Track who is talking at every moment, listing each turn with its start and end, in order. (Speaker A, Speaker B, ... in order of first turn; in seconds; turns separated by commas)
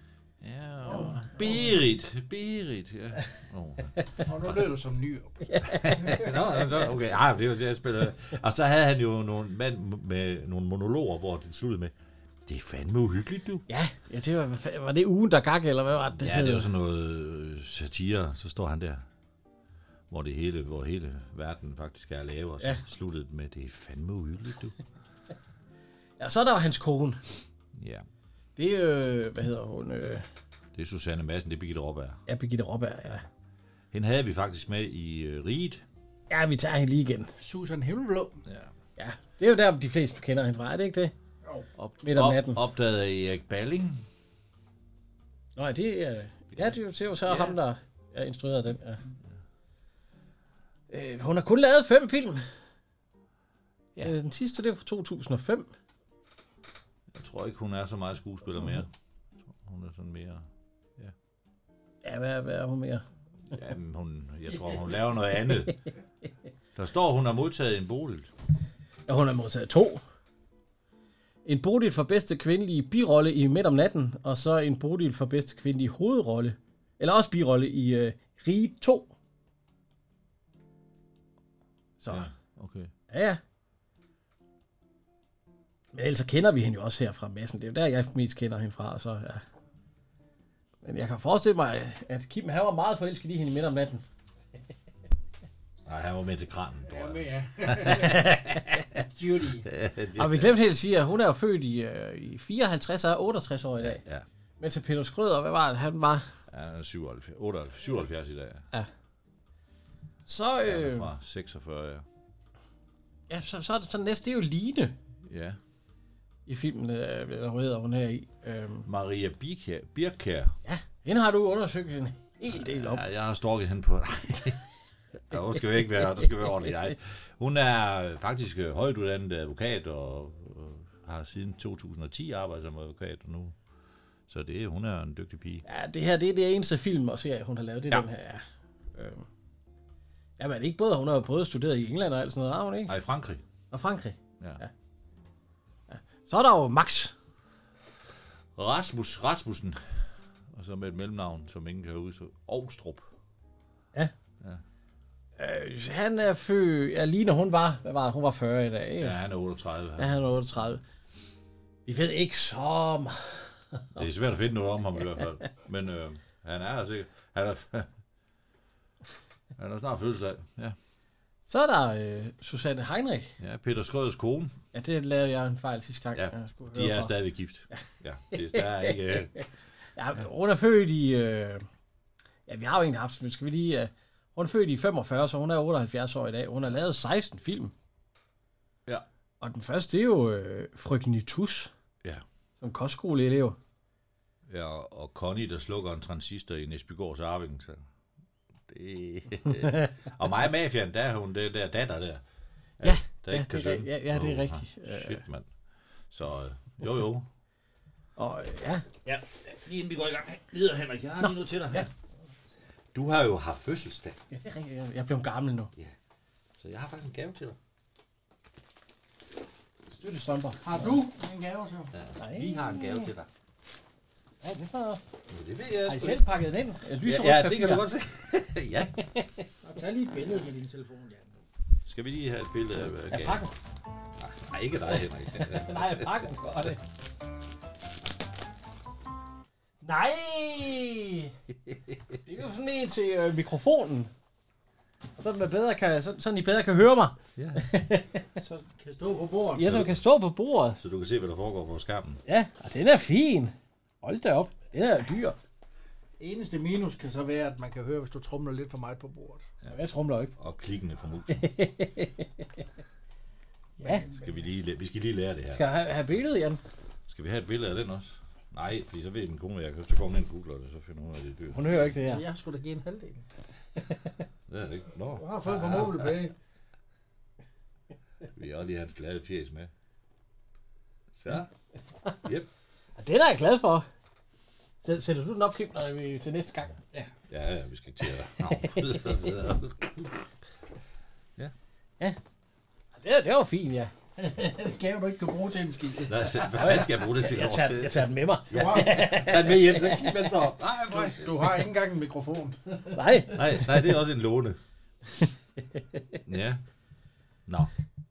Speaker A: 0.4-4.6, Speaker B: 0.8-1.8, Speaker B: 4.2-6.2, Speaker C: 5.4-6.3, Speaker A: 5.7-11.9, Speaker A: 12.4-13.6, Speaker C: 13.7-16.7, Speaker A: 16.1-19.0, Speaker A: 20.1-24.8, Speaker C: 26.2-27.2, Speaker A: 27.7-28.1, Speaker C: 28.6-30.2, Speaker A: 30.7-32.2, Speaker C: 32.3-33.2, Speaker A: 33.9-35.8, Speaker C: 36.3-37.3, Speaker B: 37.4-38.4, Speaker A: 38.5-38.7, Speaker C: 39.0-41.1, Speaker A: 41.8-44.0, Speaker C: 42.0-42.6, Speaker C: 45.5-49.0, Speaker A: 46.5-47.5, Speaker C: 50.9-52.4, Speaker C: 54.0-55.7, Speaker A: 57.1-58.9, Speaker A: 59.5-61.1, Speaker C: 62.0-63.0, Speaker A: 63.5-65.8, Speaker A: 66.7-68.3, Speaker C: 69.1-70.0, Speaker C: 71.4-79.1, Speaker C: 82.0-82.3, Speaker A: 82.1-82.9, Speaker C: 83.1-83.4, Speaker C: 85.9-89.4, Speaker C: 90.8-94.0, Speaker A: 95.8-99.0, Speaker B: 96.8-99.7, Speaker A: 99.6-100.5, Speaker C: 100.2-104.0, Speaker A: 103.8-104.2, Speaker C: 104.6-106.3, Speaker A: 106.5-108.7, Speaker C: 110.2-111.1, Speaker A: 110.6-112.0, Speaker C: 113.3-114.9, Speaker A: 115.2-115.6, Speaker C: 116.5-118.9, Speaker A: 118.8-120.5, Speaker C: 120.6-123.0, Speaker A: 122.5-124.6, Speaker A: 125.3-133.6, Speaker A: 134.3-135.6, Speaker C: 135.7-139.3, Speaker C: 140.4-142.9, Speaker A: 142.8-143.4, Speaker C: 143.7-144.7, Speaker C: 145.9-147.1, Speaker A: 148.6-153.1, Speaker C: 155.4-159.2, Speaker A: 159.0-160.2, Speaker C: 160.0-160.8, Speaker C: 161.8-164.0, Speaker A: 163.9-167.9, Speaker A: 169.6-170.8, Speaker C: 171.5-173.3, Speaker A: 173.4-174.6, Speaker C: 174.7-177.1, Speaker A: 176.1-179.4, Speaker C: 177.7-179.4, Speaker C: 179.9-181.6, Speaker C: 182.5-187.7, Speaker C: 189.4-191.7, Speaker C: 192.6-193.6, Speaker A: 194.5-197.8, Speaker A: 198.7-202.2, Speaker A: 202.8-205.5, Speaker C: 202.8-205.2, Speaker A: 206.1-207.3, Speaker C: 208.2-208.9, Speaker A: 209.0-211.9, Speaker C: 211.2-211.9, Speaker A: 212.9-214.2, Speaker C: 214.3-215.7, Speaker A: 216.6-217.6, Speaker C: 219.9-220.9, Speaker B: 220.6-221.9, Speaker A: 221.9-223.3, Speaker C: 222.2-223.1, Speaker C: 224.4-225.0, Speaker A: 225.3-226.2, Speaker C: 225.8-227.8, Speaker A: 227.0-229.1, Speaker C: 229.0-229.5, Speaker B: 229.6-231.4, Speaker A: 231.8-233.5, Speaker C: 233.1-233.5, Speaker A: 234.2-236.3, Speaker C: 235.3-236.8, Speaker C: 239.8-241.3, Speaker C: 242.2-244.1, Speaker C: 245.2-248.2, Speaker A: 247.3-247.7, Speaker B: 248.4-249.7, Speaker C: 249.5-250.8, Speaker A: 249.6-250.0, Speaker A: 250.8-252.2, Speaker C: 252.2-255.4, Speaker B: 256.2-259.4, Speaker C: 259.7-260.3, Speaker A: 260.4-261.5, Speaker C: 261.3-262.6, Speaker B: 263.8-264.3, Speaker A: 264.1-265.7, Speaker C: 265.5-266.6, Speaker A: 267.1-271.9, Speaker C: 271.5-272.2, Speaker B: 272.0-273.2, Speaker C: 273.9-274.2, Speaker A: 274.5-276.1, Speaker B: 275.1-276.3, Speaker A: 278.3-279.7, Speaker A: 281.1-281.5, Speaker A: 282.2-282.5, Speaker C: 283.0-283.9, Speaker C: 284.8-286.8, Speaker A: 287.2-290.2, Speaker C: 288.4-289.1, Speaker C: 293.0-293.9, Speaker B: 294.2-296.7, Speaker A: 296.1-301.6, Speaker C: 296.5-300.3, Speaker B: 298.5-298.9, Speaker B: 300.9-303.0, Speaker C: 302.9-303.8, Speaker A: 303.3-304.6, Speaker C: 305.2-306.0, Speaker A: 306.2-306.6, Speaker A: 307.5-307.7